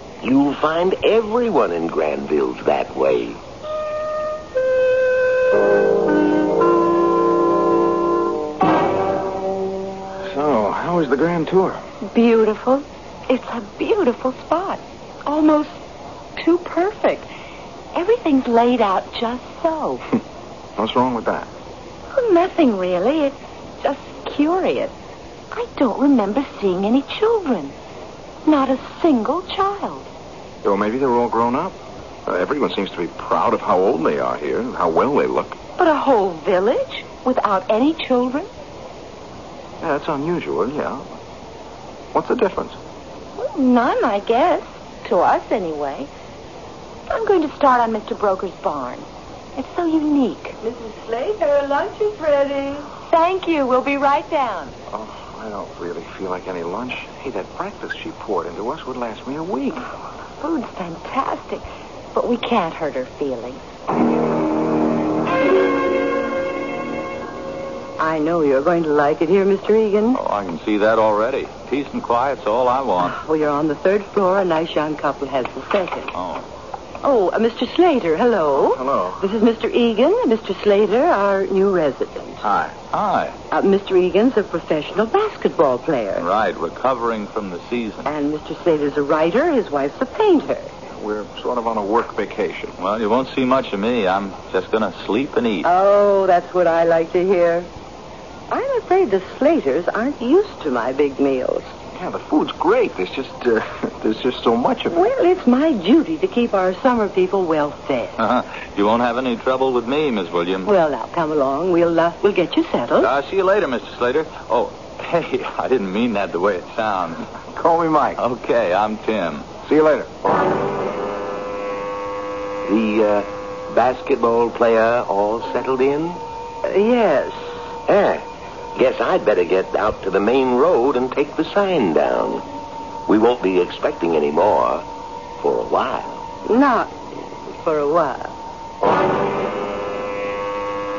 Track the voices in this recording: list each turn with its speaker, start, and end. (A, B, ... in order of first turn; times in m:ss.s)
0:00.2-0:03.4 A
0:10.2-0:11.8 B
0:12.0-0:15.8 C
0:16.4-0:17.3 C
0:17.9-0:20.0 C
0:20.8-0:21.5 B
0:22.1-0:24.9 C
0:25.5-0:27.7 C
0:28.4-0:30.1 C
0:30.6-0:31.7 B
0:32.2-0:35.6 B
0:35.8-0:38.5 C
0:39.8-0:41.0 B
0:42.1-0:42.8 B
0:43.4-0:46.1 C
0:47.1-0:49.0 C
0:49.6-0:50.6 C
0:50.6-0:52.9 D
0:53.1-0:54.7 C
0:54.9-0:59.8 B
1:00.4-1:03.6 C
1:08.0-1:10.2 D
1:10.1-1:13.2 E
1:13.0-1:16.1 D
1:16.1-1:16.4 E
1:17.0-1:22.4 D
1:18.6-1:19.2 B
1:22.4-1:23.4 E
1:23.5-1:26.2 D
1:26.2-1:28.1 E
1:28.0-1:30.7 D
1:31.0-1:32.7 B
1:32.8-1:35.7 E
1:35.6-1:37.7 D
1:38.5-1:41.7 D
1:41.9-1:45.0 B
1:44.9-1:48.2 D
1:48.2-1:50.7 E
1:50.6-1:53.1 D
1:53.0-1:57.4 E
1:57.5-1:58.2 B
1:58.2-1:59.5 E
1:59.6-2:00.2 B
2:02.6-2:06.2 A
2:06.6-2:07.4 D
2:07.9-2:08.2 A
2:08.8-2:12.4 A
2:13.1-2:14.8 A
2:15.4-2:16.2 A
2:16.4-2:16.9 D
2:17.5-2:18.3 D